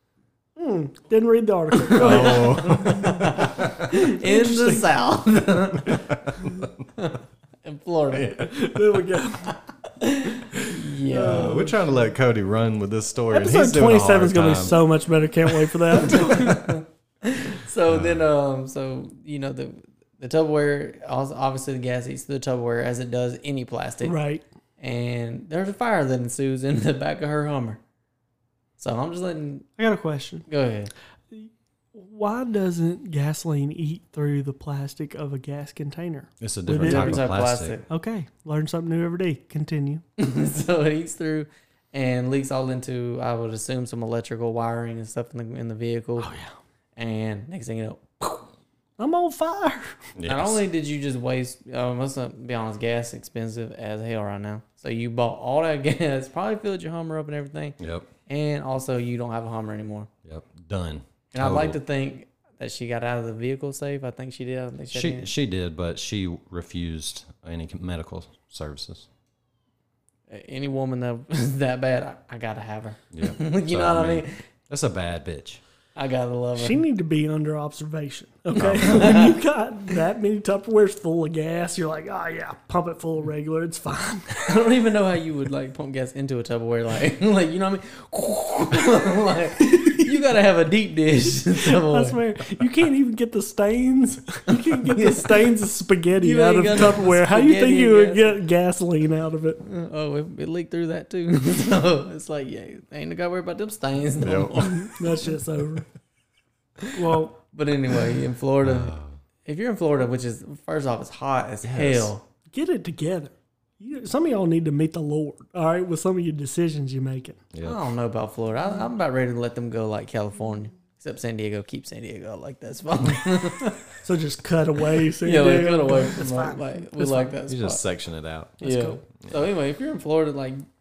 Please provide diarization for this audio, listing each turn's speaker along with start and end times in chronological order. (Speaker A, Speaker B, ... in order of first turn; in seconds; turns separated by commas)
Speaker A: 0.6-2.9, Speaker B: 1.9-6.5, Speaker C: 1.9-3.7, Speaker A: 3.9-4.9, Speaker C: 6.2-6.7, Speaker B: 7.0-8.5, Speaker A: 8.3-9.6, Speaker B: 10.0-11.7, Speaker A: 10.6-12.0, Speaker C: 11.3-14.8, Speaker A: 13.3-16.8, Speaker B: 15.9-24.2, Speaker C: 17.9-18.2, Speaker A: 24.0-24.4, Speaker B: 24.8-27.8, Speaker B: 28.8-29.7, Speaker A: 29.8-30.5, Speaker B: 30.5-30.9, Speaker A: 31.3-37.3, Speaker C: 36.4-37.8, Speaker B: 36.7-37.9, Speaker A: 37.9-40.0, Speaker B: 40.2-46.3, Speaker A: 46.2-46.5, Speaker B: 47.0-48.5, Speaker A: 49.0-50.0, Speaker C: 50.2-50.6, Speaker B: 50.2-60.1, Speaker C: 57.8-58.1, Speaker C: 60.2-61.8, Speaker B: 61.3-65.3, Speaker C: 64.9-69.1, Speaker B: 70.3-74.4, Speaker C: 73.1-75.6, Speaker B: 76.0-76.8, Speaker A: 76.6-84.5, Speaker C: 78.5-79.1, Speaker B: 78.8-79.4, Speaker B: 84.5-92.2, Speaker A: 89.7-90.1, Speaker A: 91.6-99.6, Speaker B: 94.5-95.6, Speaker B: 96.2-98.4, Speaker B: 99.6-105.0, Speaker C: 104.2-104.7, Speaker A: 104.6-105.9, Speaker B: 106.8-108.9, Speaker A: 106.9-107.4, Speaker C: 108.6-109.1, Speaker B: 109.5-112.2, Speaker C: 111.6-112.1, Speaker A: 112.5-117.4, Speaker C: 117.5-117.8, Speaker B: 117.6-123.8, Speaker A: 124.0-127.4, Speaker B: 125.2-127.8, Speaker C: 127.5-128.6, Speaker A: 128.6-129.0, Speaker B: 128.6-130.6